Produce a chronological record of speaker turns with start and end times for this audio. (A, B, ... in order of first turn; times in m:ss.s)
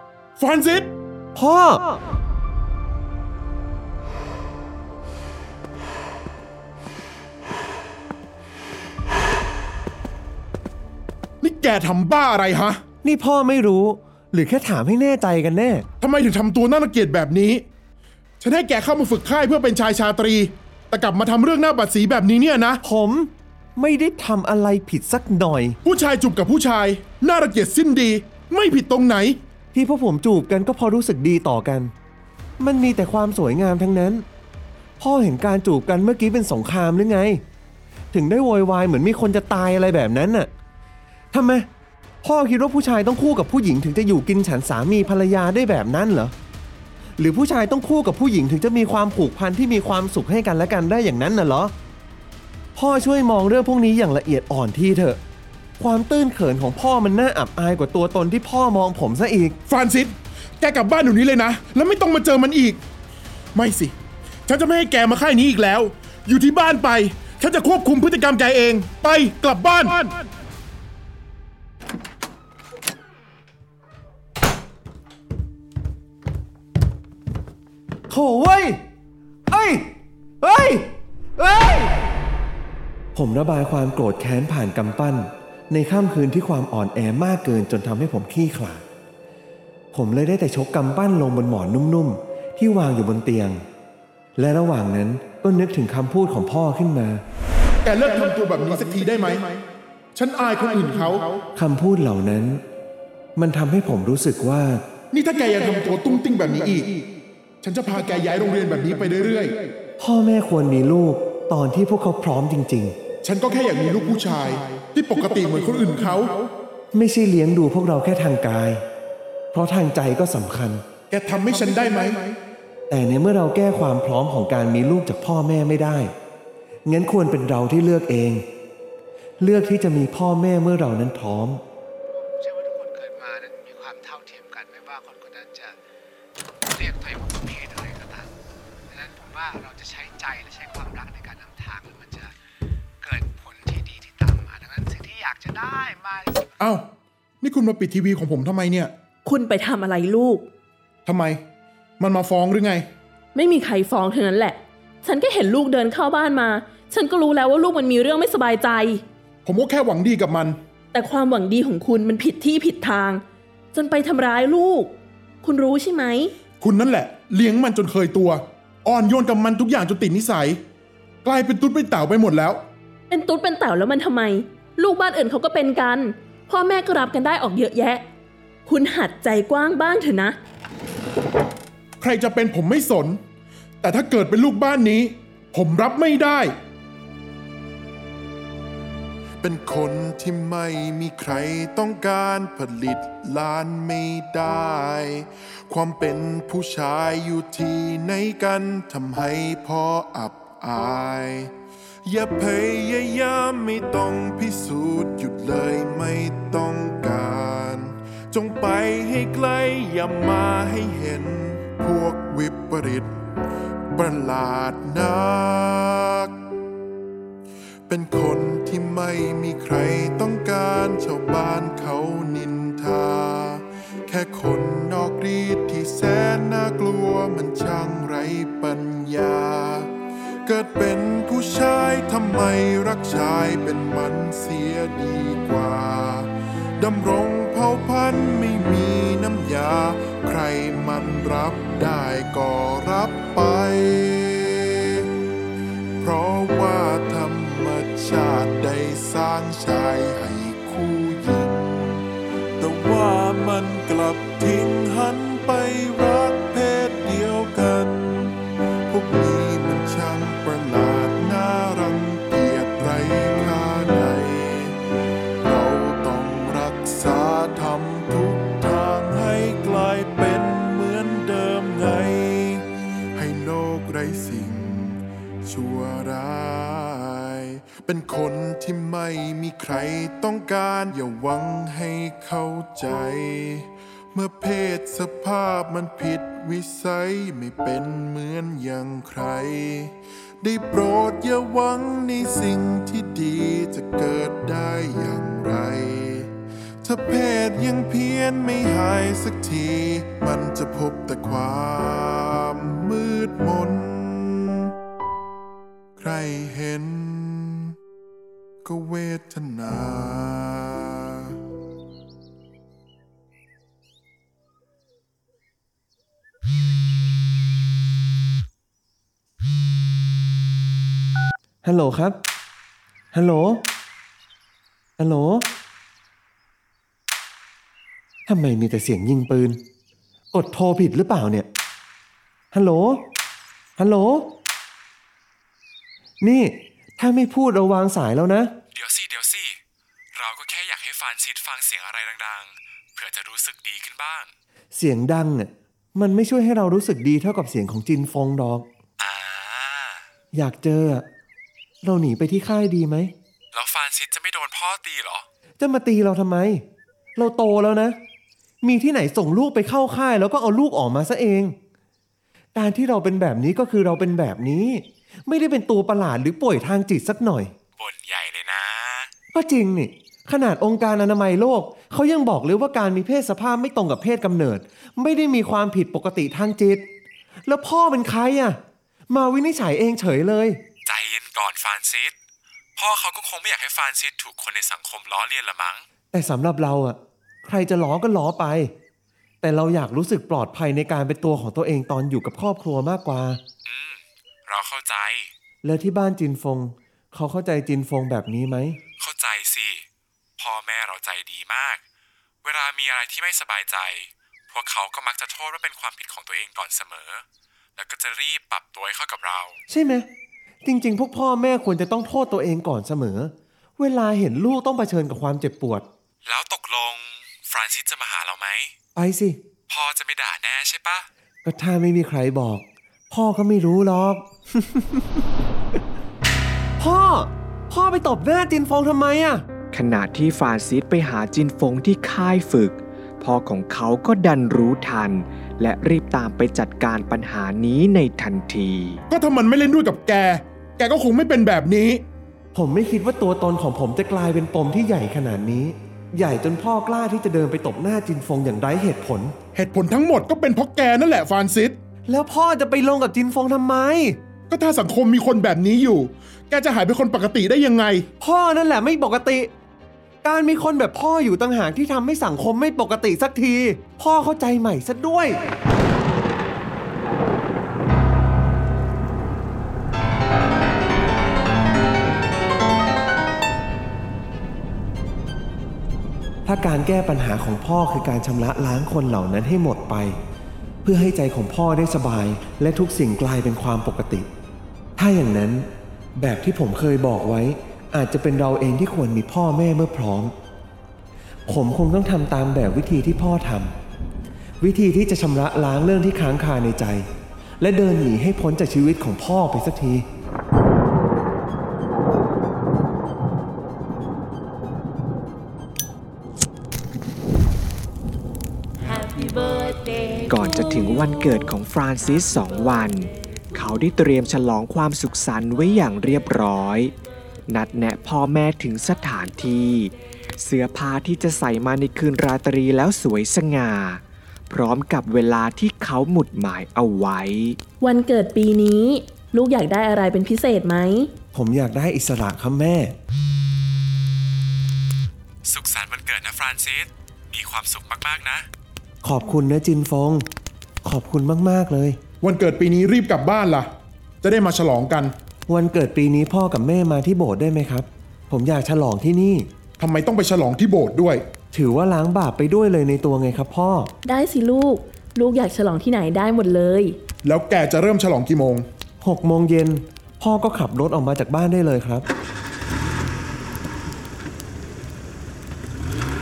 0:00.4-0:00.9 A
0:01.4-0:02.0 B
0:11.4-0:12.8 A
0:13.0-0:15.9 B
0:16.0-0:17.6 A
0:18.4-0:22.8 A
0:22.8-0:25.8 B
0:25.8-0:29.4 A
0:29.7-0:31.9 B
0:32.6-0:34.2 B
0:35.0-0:37.4 B
0:38.1-0:40.5 B
0:41.3-0:41.7 B
0:42.2-0:46.4 B
0:47.2-0:51.7 B
0:52.8-0:55.2 B
0:55.8-0:59.6 B
0:59.7-1:02.8 A
1:03.6-1:03.9 A
1:04.5-1:10.1 A
1:18.1-1:18.8 B
1:19.5-1:19.9 B
1:20.4-1:22.0 B
1:23.2-1:28.8 B
1:29.9-1:33.6 B
1:34.4-1:37.2 B
1:37.8-1:39.6 A
1:40.2-1:41.4 A
1:41.6-1:42.6 B
1:43.4-1:44.8 B
1:45.1-1:47.0 A
1:47.6-1:49.7 A
1:50.0-1:53.0 B
1:53.2-1:56.5 A
1:56.9-1:58.8 B
1:59.5-2:00.8 B
2:01.1-2:02.4 A
2:02.9-2:06.1 B
2:06.9-2:08.4 B
2:09.4-2:11.6 B
2:12.1-2:15.8 C
2:16.7-2:18.3 C
2:18.9-2:22.3 C
2:23.0-2:26.6 C
2:26.6-2:26.9 A
2:27.4-2:28.9 A
2:29.2-2:30.5 D
2:31.1-2:31.4 A
2:32.0-2:32.9 A
2:33.4-2:39.0 D
2:39.4-2:40.6 A
2:40.9-2:46.3 D
2:46.6-2:50.6 A
2:51.2-2:52.6 A
2:53.1-2:58.0 D
2:58.7-3:00.4 D
3:02.0-3:03.2 A
3:03.8-3:06.6 A
3:09.4-3:21.5 E
3:22.1-3:33.2 E
3:33.9-3:36.3 E
3:37.9-3:49.9 E
3:50.4-4:05.0 E
4:06.0-4:12.0 E
4:12.6-4:18.4 E
4:18.9-4:24.8 E
4:25.4-5:04.7 E
5:06.0-5:07.8 E
5:08.6-5:11.4 E
5:21.6-5:22.2 B
5:23.1-5:23.7 B
5:25.0-5:25.5 B
5:28.3-5:29.6 B
5:30.3-5:31.5 B
5:32.5-5:33.1 B
5:33.8-5:34.3 B
5:36.2-5:38.5 B
5:38.7-5:39.6 F
5:40.2-5:44.3 F
5:44.8-5:48.7 B
5:49.0-5:50.0 F
5:50.3-5:51.1 B
5:51.8-5:53.1 B
5:53.5-5:55.3 F
5:55.6-5:58.0 B
5:58.6-6:01.6 B
6:02.6-6:07.5 B
6:07.8-6:09.1 F
6:09.3-6:16.9 B
6:17.5-6:20.6 B
6:20.8-6:22.2 F
6:22.8-6:25.8 F
6:26.1-6:28.7 B
6:29.4-6:33.4 B
6:33.6-6:35.3 F
6:35.6-6:38.8 B
6:39.0-6:39.9 F
6:40.4-6:41.8 F
6:42.4-6:47.2 F
6:47.8-6:49.6 F
6:49.7-6:50.1 B
6:50.6-6:55.9 B
6:56.2-6:58.8 F
6:59.0-6:59.4 B
6:59.7-7:01.1 F
7:01.4-7:04.3 B
7:06.8-7:09.4 B
7:09.7-7:19.0 G
7:19.1-7:22.0 A
7:22.5-7:29.4 B
7:29.6-7:31.8 A
7:32.1-7:34.2 B
7:34.5-7:38.1 A
7:38.2-7:39.5 B
7:40.2-7:45.4 B
7:56.4-8:00.2 B
8:00.8-8:04.3 B
8:05.0-8:10.3 B
8:11.5-8:13.7 B
8:14.6-8:17.1 B
8:17.6-8:20.1 B
8:30.3-8:36.9 G
8:37.5-8:44.0 G
8:44.5-8:47.6 G
8:47.8-8:51.1 D
8:51.3-8:53.0 B
8:55.4-8:58.5 F
8:59.0-9:00.3 B
9:00.8-9:02.0 B
9:02.2-9:03.7 A
9:04.2-9:05.1 A
9:05.5-9:09.5 B
9:09.8-9:11.2 A
9:11.5-9:13.9 B
9:14.0-9:17.0 D
9:17.2-9:18.7 A
9:19.0-9:22.1 B